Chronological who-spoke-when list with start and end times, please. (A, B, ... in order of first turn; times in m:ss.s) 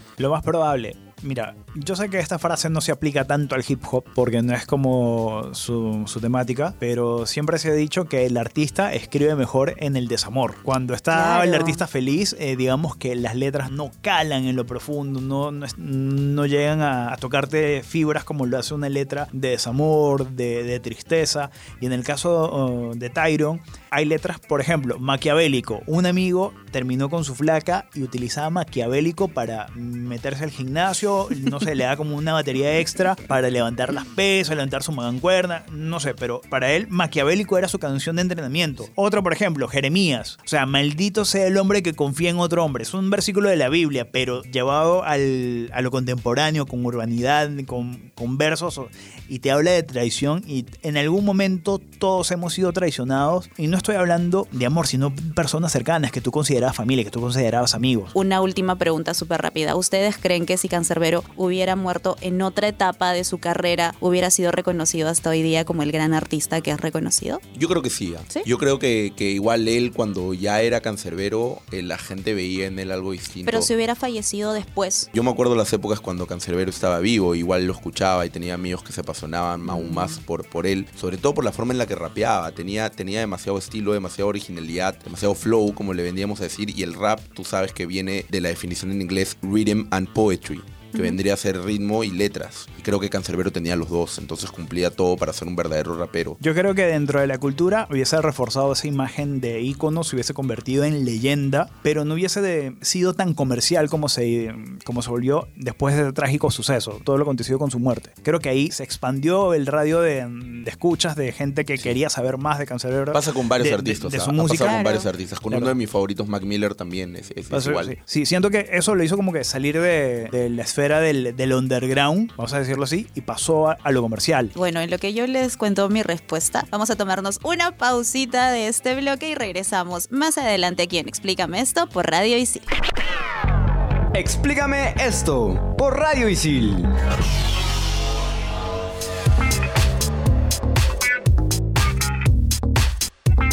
0:00.2-0:58.1 A
0:11.1-0:11.8 B
0:58.1-1:07.4 B
1:07.5-1:13.7 C
1:13.5-1:15.1 B
1:15.1-1:36.4 C
1:19.6-1:20.2 B
1:36.4-1:54.8 A
1:53.1-1:58.0 C
1:54.4-1:55.1 B
1:57.5-2:04.5 A
2:04.6-2:12.7 B
2:14.2-2:16.9 D